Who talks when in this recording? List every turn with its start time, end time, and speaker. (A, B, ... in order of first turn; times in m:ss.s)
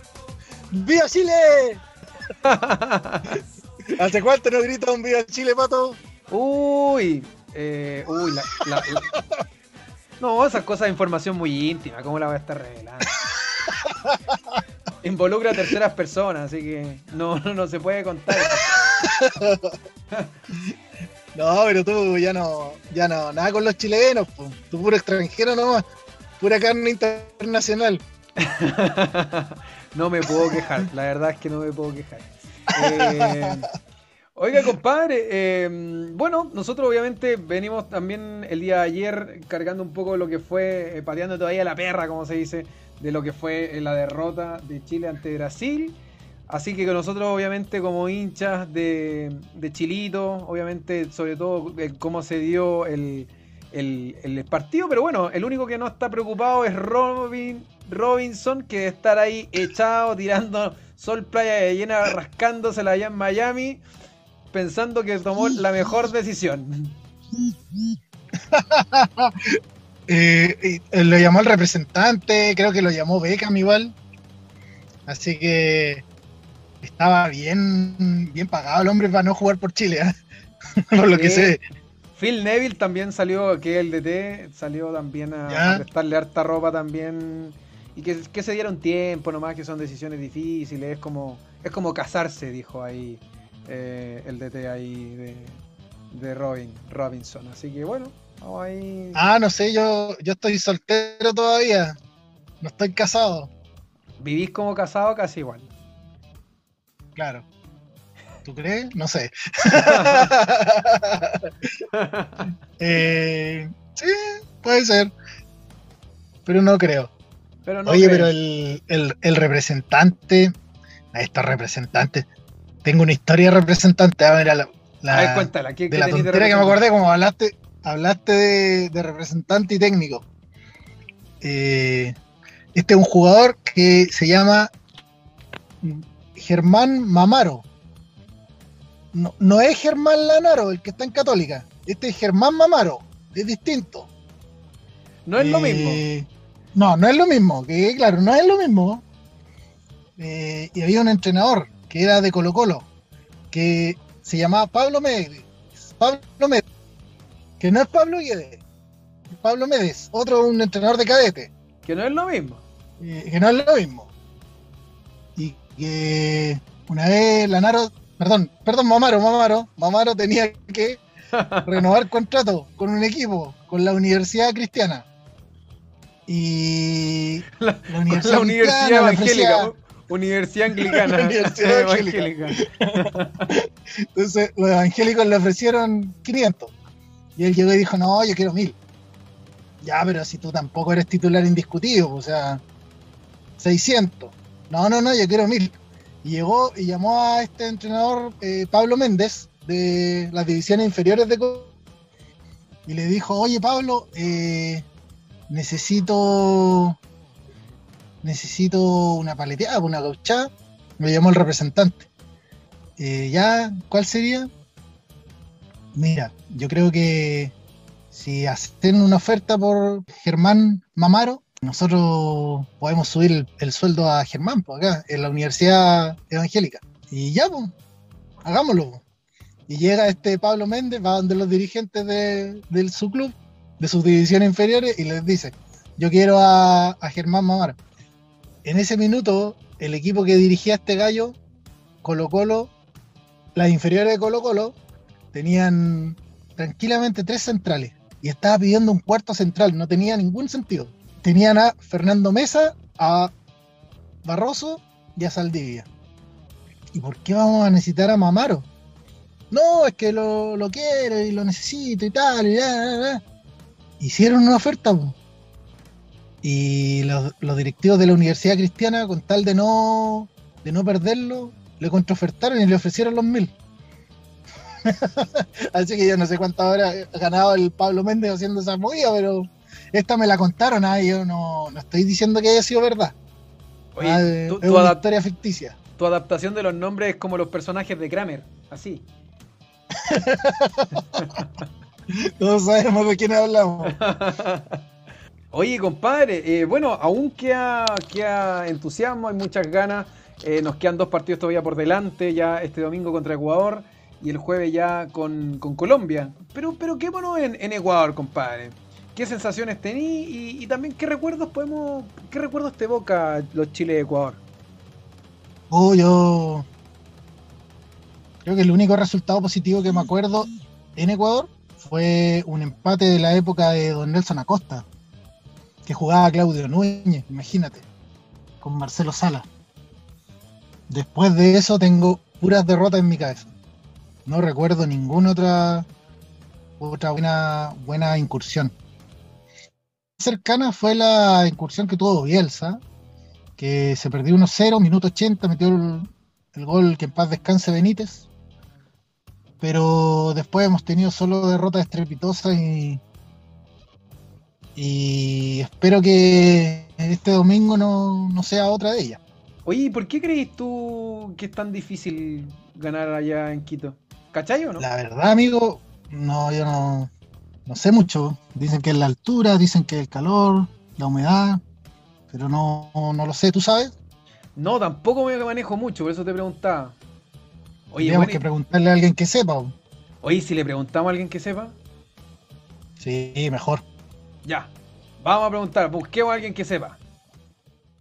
0:00.7-0:01.8 A
0:02.4-0:03.4 B
0:03.9-0:06.0 A
0:06.3-0:09.1 B
0:10.2-0:13.2 B
0:13.6-0:14.2 A
0:15.0-0:18.7 B
0:18.4-0:19.7 A
0:21.3-0:25.8 A
0:26.4-0:28.0 A
0:28.4-0:33.7 B
0:32.8-0:33.5 A
0:34.3-0:46.0 B
0:46.5-1:03.8 B
1:04.5-1:07.0 B
1:07.3-1:08.0 A
1:08.5-1:13.9 A
1:15.1-1:16.0 A
1:16.8-1:20.1 A
1:20.9-1:21.6 A
1:21.1-1:21.6 B
1:22.1-1:39.2 B
1:25.5-1:25.8 A
1:39.1-1:42.0 A
1:42.6-1:43.5 A
1:44.2-1:45.7 B
1:47.2-1:47.4 A
1:48.4-1:51.5 A
1:49.8-1:50.3 B
1:51.9-1:52.5 B
1:52.8-1:55.1 A
1:56.4-1:57.1 A
1:57.6-1:58.3 B
1:57.8-2:00.5 A
2:01.1-2:02.3 A
2:02.8-2:10.2 A
2:05.1-2:06.8 B
2:11.4-2:12.1 A
2:12.7-2:14.7 A
2:15.8-2:17.6 A
2:19.1-2:24.1 A
2:25.2-2:26.0 B
2:25.4-2:29.0 A
2:30.2-2:32.9 A
2:33.5-2:36.6 A
2:37.6-2:38.6 A
2:39.3-2:41.5 A
2:41.8-2:42.6 B
2:43.0-2:44.1 A
2:45.4-2:51.0 A
2:51.3-2:51.7 B
2:51.6-2:55.0 A
2:56.3-2:59.7 A
2:57.6-3:03.5 B
3:00.7-3:06.7 A
3:07.4-3:08.8 A
3:09.8-3:12.6 A
3:13.6-3:21.7 A
3:22.8-3:24.9 A
3:25.5-3:27.0 A
3:28.2-3:32.1 A
3:33.0-3:34.5 A
3:35.9-3:37.5 A
3:38.1-3:47.7 A
3:48.4-3:49.0 A
3:49.7-3:57.8 A
3:58.6-4:01.4 A
4:02.0-4:02.7 A
4:03.5-4:04.8 A
4:05.3-4:13.3 A
4:14.2-4:15.9 A
4:16.9-4:18.7 A
4:19.5-4:23.2 A
4:24.0-4:25.2 A
4:26.4-4:33.5 A
4:34.8-4:43.1 A
4:43.9-4:45.0 B
4:44.0-4:45.8 A
4:46.0-4:49.0 B
4:50.0-4:51.0 A
4:51.1-4:51.5 B
4:52.2-4:54.0 A
4:53.8-4:54.8 B
4:55.5-5:14.4 B
5:15.7-5:16.6 A
5:18.4-5:24.8 A
5:25.8-5:27.8 A
5:28.6-5:29.5 A
5:30.9-5:33.5 A
5:34.2-5:35.9 A
5:36.8-5:38.7 A
5:40.2-5:42.8 A
5:43.6-5:48.3 A
5:49.6-5:53.0 A
5:54.8-5:59.2 A
5:59.6-6:04.9 B
6:04.8-6:07.1 A
6:07.7-6:11.6 A
6:12.3-6:13.9 A
6:14.6-6:17.0 B
6:17.9-6:18.4 B
6:18.0-6:19.7 A
6:20.2-6:21.8 B
6:23.0-6:23.8 A
6:24.4-6:27.0 B